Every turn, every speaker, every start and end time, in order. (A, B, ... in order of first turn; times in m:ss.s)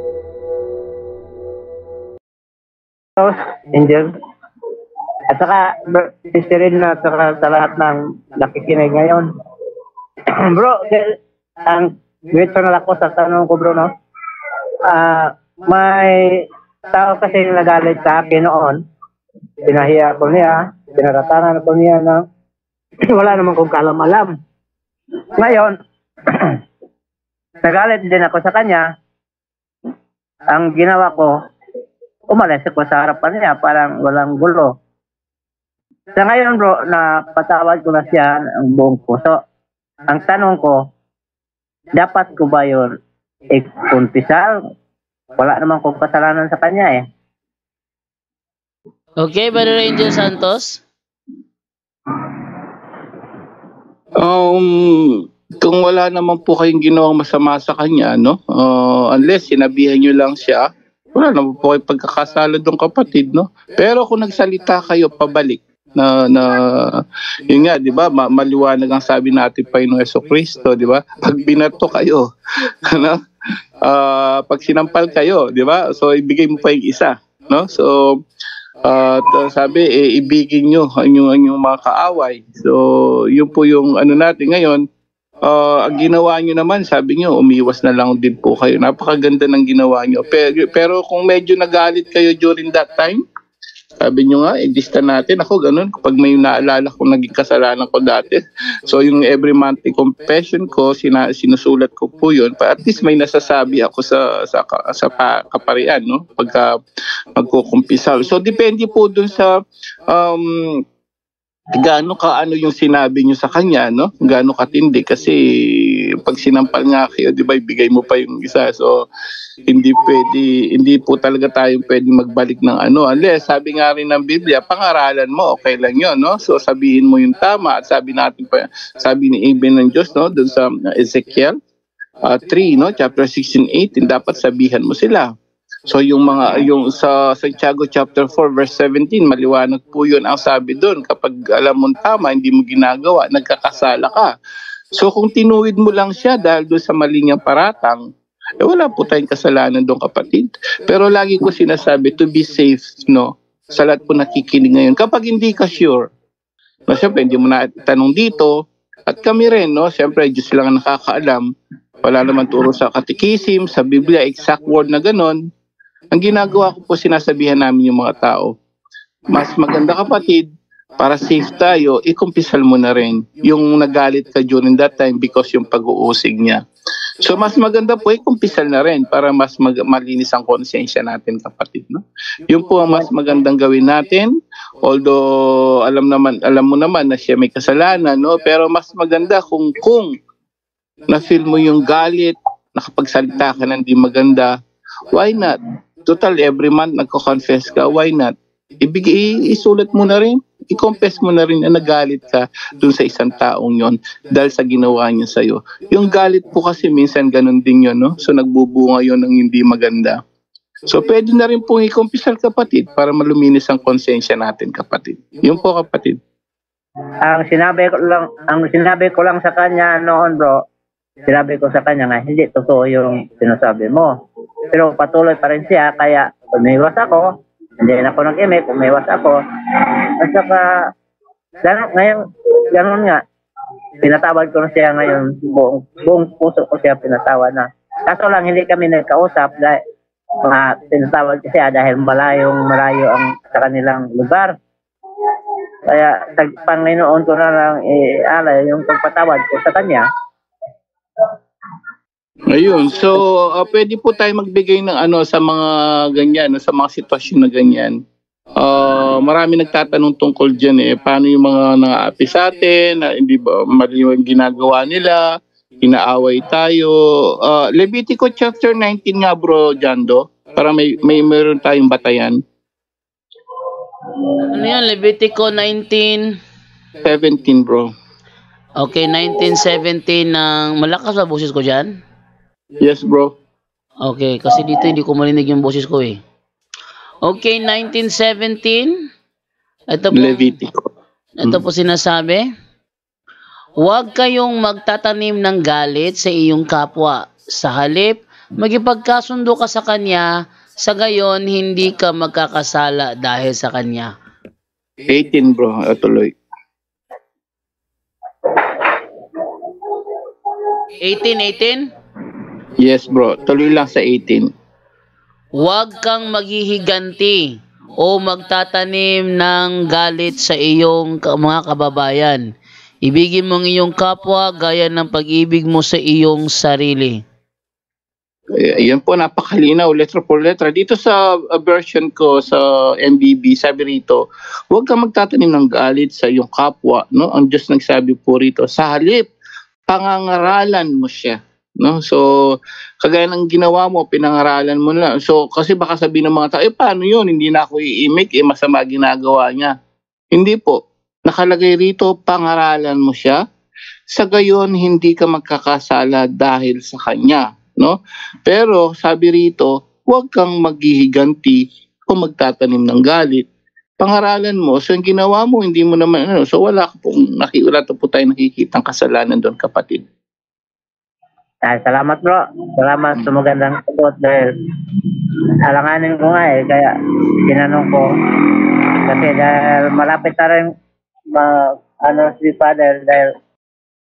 0:03.2-0:04.1 A
0:05.3-0:09.3 A
0:10.5-0:11.0 A
0:11.7-0:13.9 A
0:14.9-0:16.1 A
0:16.9-0:18.8 A
0:19.6-0:22.2 A
0:23.1-0:24.3 A
0:25.4-0:25.7 A
0:27.6-0:28.8 A
0:30.5-0:31.3 A
0:32.3-0:34.7 A
0:36.2-0:39.4 A
0:40.1-0:40.8 A
0:42.0-0:42.9 A
0:43.5-0:44.5 A
0:45.4-0:47.0 A
0:49.2-0:50.8 B
0:54.2-1:13.2 C
1:13.8-1:18.2 C
1:18.8-1:24.8 C
1:25.4-1:33.2 C
1:34.0-1:46.7 C
1:47.3-1:49.5 C
1:50.1-1:50.8 C
1:51.7-1:59.0 C
1:59.7-2:11.6 C
2:12.2-2:15.3 C
2:15.9-2:24.4 C
2:24.9-2:28.0 C
2:28.6-2:36.1 C
2:36.9-2:38.6 C
2:39.1-2:41.5 C
2:42.0-2:45.4 C
2:46.1-2:48.5 C
2:49.3-2:56.6 C
2:57.2-3:10.1 C
3:11.1-3:14.5 C
3:15.1-3:30.2 C
3:30.8-3:36.2 C
3:37.2-3:40.6 A
3:41.3-3:44.1 A
3:44.7-3:47.3 A
3:47.8-3:49.4 A
3:50.2-3:50.6 A
3:51.6-3:52.2 A
3:52.7-3:53.2 A
3:54.0-3:59.8 A
4:00.4-4:04.5 A
4:05.9-4:10.0 A
4:12.5-4:17.9 C
4:18.6-4:25.2 C
4:25.8-4:32.4 C
4:34.5-4:36.3 B
4:37.0-4:37.9 C
4:38.8-4:42.0 B
4:42.8-4:43.3 C
4:44.0-4:46.2 B
4:47.2-4:48.9 B
4:49.9-4:50.5 B
4:50.1-4:50.8 C
4:51.4-4:52.4 B
4:53.8-5:04.1 B
5:05.1-5:06.3 C
5:11.0-5:11.9 B
5:12.8-5:14.5 C
5:15.6-5:22.4 B
5:23.0-5:27.2 B
5:28.6-5:39.3 C
5:39.9-5:42.3 C
5:43.0-5:49.7 C
5:50.3-5:53.4 C
5:54.1-6:03.4 C
6:04.0-6:10.0 C
6:11.6-6:14.5 A
6:15.7-6:16.9 A
6:17.5-6:18.1 A
6:19.1-6:20.7 A
6:22.0-6:23.3 A